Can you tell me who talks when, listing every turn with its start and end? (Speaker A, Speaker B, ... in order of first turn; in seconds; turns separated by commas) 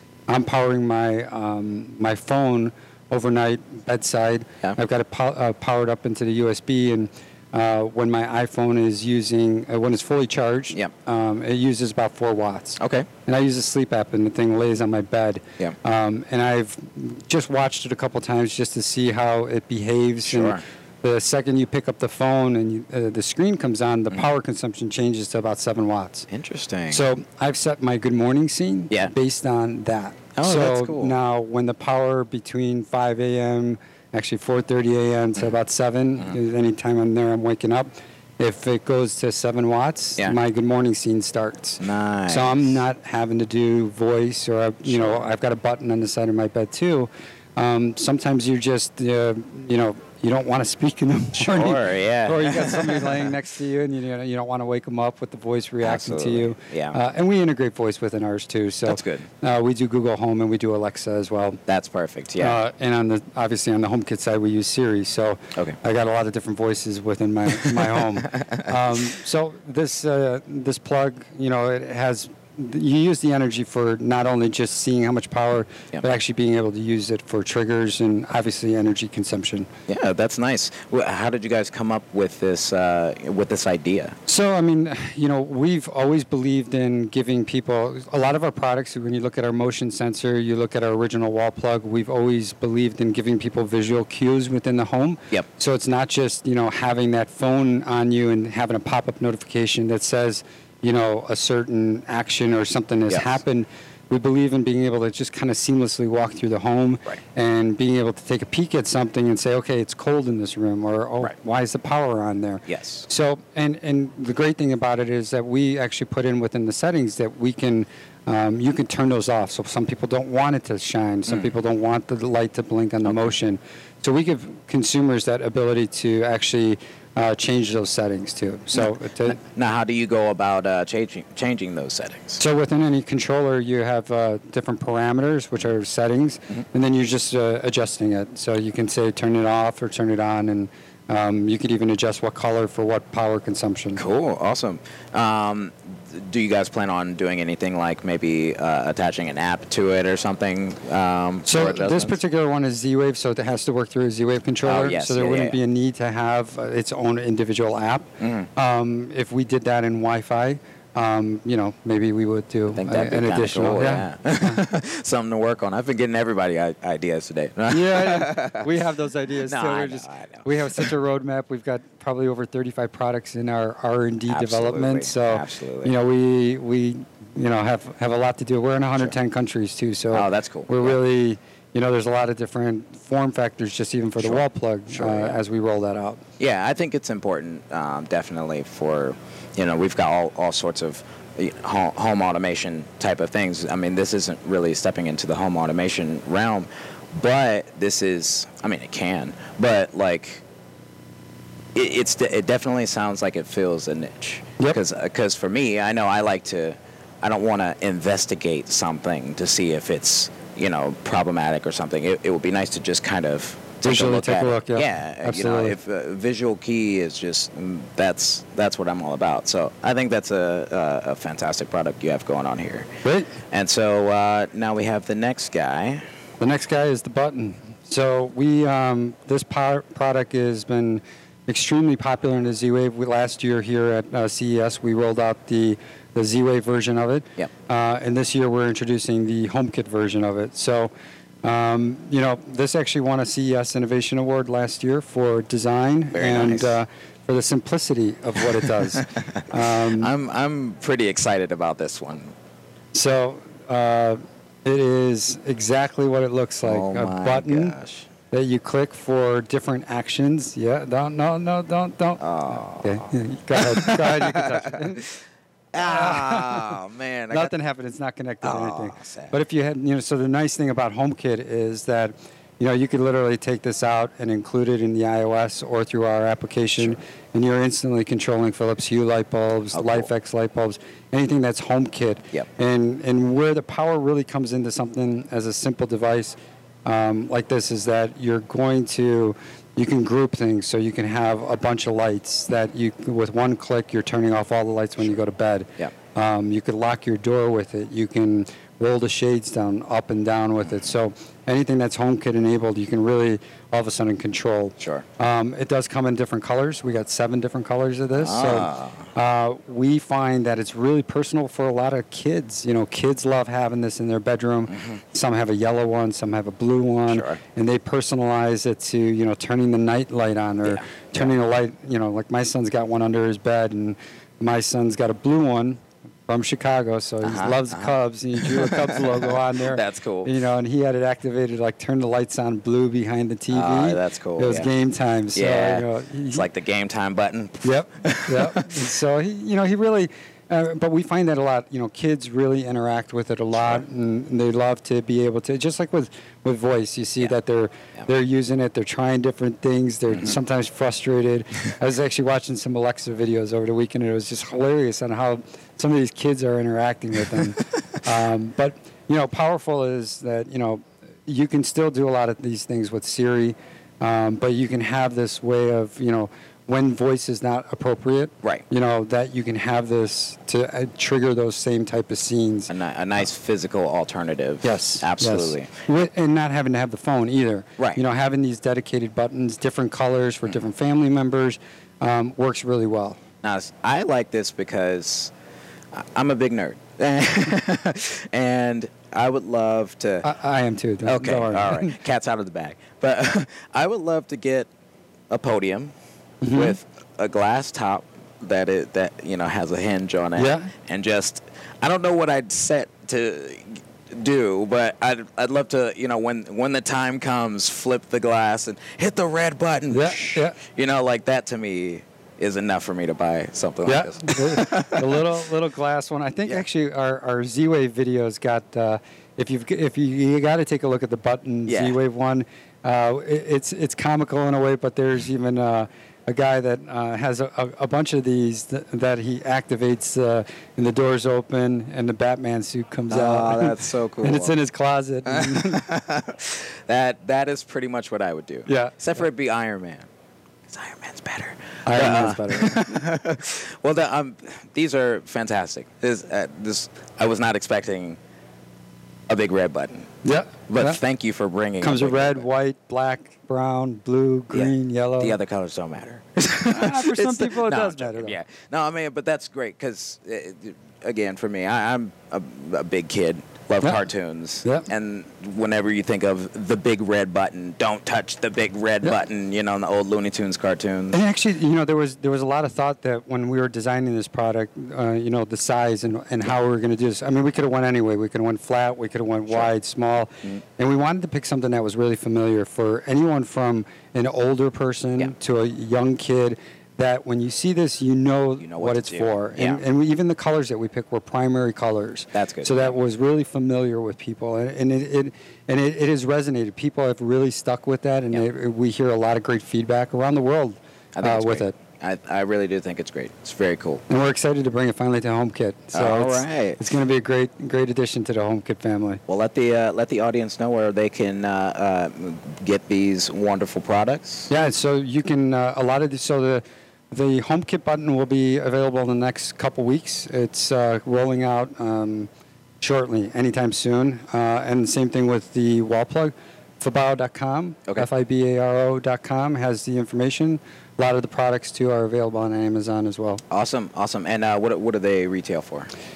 Speaker A: 0.3-26.3, Speaker B: 12.8-13.1, Speaker B: 20.2-20.6, Speaker B: 26.3-27.1, Speaker A: 26.9-61.6, Speaker B: 30.4-31.2, Speaker B: 41.8-42.7, Speaker B: 44.9-45.2, Speaker B: 51.4-53.3, Speaker B: 55.8-57.0, Speaker B: 58.9-59.3, Speaker B: 61.7-62.6, Speaker A: 62.4-79.7, Speaker B: 79.9-84.2, Speaker A: 84.3-129.4, Speaker B: 103.1-103.4, Speaker B: 112.7-113.1, Speaker B: 121.3-121.5, Speaker B: 123.0-123.3, Speaker B: 129.5-132.4, Speaker A: 132.4-144.0, Speaker B: 143.9-152.2, Speaker A: 151.5-164.6, Speaker B: 154.6-155.6, Speaker B: 158.2-158.5, Speaker B: 162.7-168.7, Speaker A: 167.7-186.2, Speaker B: 169.4-170.9, Speaker B: 174.3-175.9, Speaker B: 180.1-181.0, Speaker B: 184.2-185.4, Speaker B: 186.4-200.4, Speaker B: 201.8-222.9, Speaker A: 213.8-215.8, Speaker A: 223.0-223.3, Speaker B: 223.5-226.0, Speaker A: 226.4-240.9, Speaker A: 241.4-250.1, Speaker B: 246.1-246.8, Speaker B: 249.1-252.3, Speaker A: 252.9-257.8, Speaker B: 256.6-258.1, Speaker A: 258.3-265.1, Speaker B: 262.2-265.0, Speaker B: 265.7-267.5, Speaker A: 265.8-266.8, Speaker A: 267.3-336.5, Speaker B: 268.4-269.4, Speaker B: 279.7-280.1, Speaker B: 304.8-305.1, Speaker B: 308.1-309.1, Speaker B: 317.1-317.4, Speaker B: 320.6-321.3, Speaker B: 327.2-330.3, Speaker B: 333.5-334.7, Speaker B: 335.3-338.8, Speaker A: 337.6-372.7, Speaker B: 343.6-343.8, Speaker B: 372.7-375.7, Speaker A: 374.6-383.2, Speaker B: 383.4-385.3, Speaker B: 385.9-390.3, Speaker A: 390.2-392.0, Speaker B: 391.1-394.7, Speaker B: 395.3-395.9, Speaker A: 396.4-396.8, Speaker B: 396.5-415.3, Speaker A: 400.4-400.7, Speaker A: 409.9-410.6, Speaker A: 413.9-435.9, Speaker B: 421.7-422.0, Speaker B: 433.1-434.6, Speaker B: 435.3-440.1, Speaker A: 438.7-439.0, Speaker B: 440.7-448.2, Speaker A: 441.9-442.8, Speaker B: 449.3-450.1, Speaker A: 450.2-451.0, Speaker B: 450.7-452.5, Speaker A: 451.8-455.4, Speaker B: 454.5-471.2, Speaker A: 456.7-458.4, Speaker A: 471.1-501.8, Speaker B: 488.6-489.8, Speaker B: 492.3-493.0, Speaker B: 501.1-504.0, Speaker A: 504.1-509.2, Speaker B: 505.9-506.8, Speaker B: 509.3-514.5, Speaker A: 514.5-522.3, Speaker A: 522.8-533.4, Speaker B: 533.5-535.9